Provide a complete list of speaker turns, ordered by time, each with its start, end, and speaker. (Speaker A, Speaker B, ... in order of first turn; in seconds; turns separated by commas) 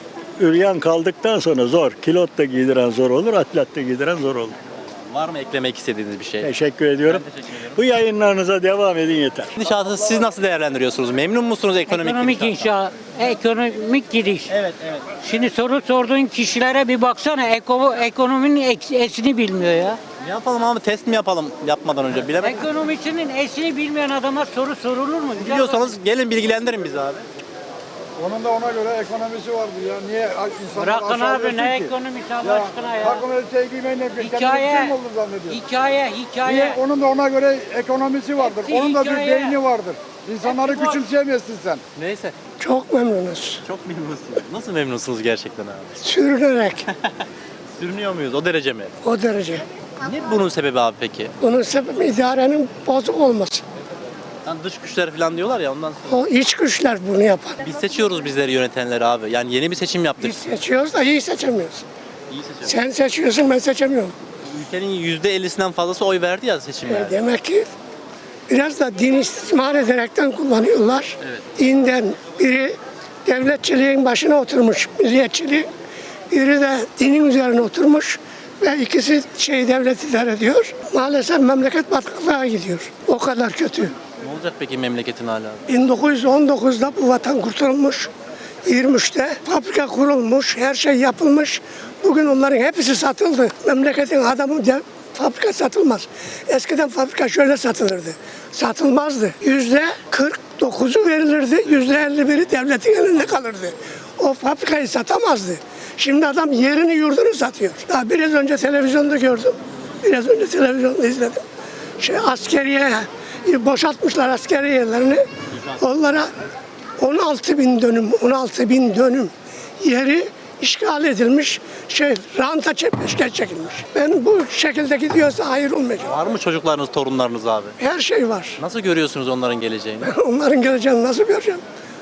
Speaker A: 0.4-4.6, Speaker B: 5.1-6.5, Speaker A: 6.4-9.5, Speaker B: 7.1-7.8, Speaker B: 9.6-12.7, Speaker C: 11.9-14.5, Speaker B: 14.5-15.1, Speaker C: 15.2-20.0, Speaker B: 20.2-22.8, Speaker C: 22.4-25.9, Speaker B: 25.4-27.2, Speaker D: 28.2-35.6, Speaker C: 30.8-33.2, Speaker C: 34.2-36.8, Speaker D: 36.4-41.8, Speaker C: 38.4-39.6, Speaker C: 40.5-41.0, Speaker B: 42.0-42.4, Speaker E: 42.6-43.6, Speaker B: 43.6-45.9, Speaker E: 46.0-46.9, Speaker B: 47.8-48.9, Speaker E: 49.0-49.6, Speaker B: 50.0-51.3, Speaker E: 51.4-53.6, Speaker B: 54.5-56.2, Speaker E: 56.1-57.6, Speaker B: 57.6-60.5, Speaker E: 60.2-61.8, Speaker B: 62.3-62.8, Speaker E: 62.6-64.1, Speaker B: 64.4-67.2, Speaker E: 66.9-67.7, Speaker E: 68.5-75.7, Speaker E: 76.3-84.0, Speaker B: 84.2-85.6, Speaker E: 85.7-88.1, Speaker E: 88.7-111.4, Speaker E: 112.0-116.3, Speaker E: 117.0-126.2, Speaker B: 126.0-127.8, Speaker E: 127.8-128.6, Speaker B: 128.6-130.1, Speaker E: 130.0-131.6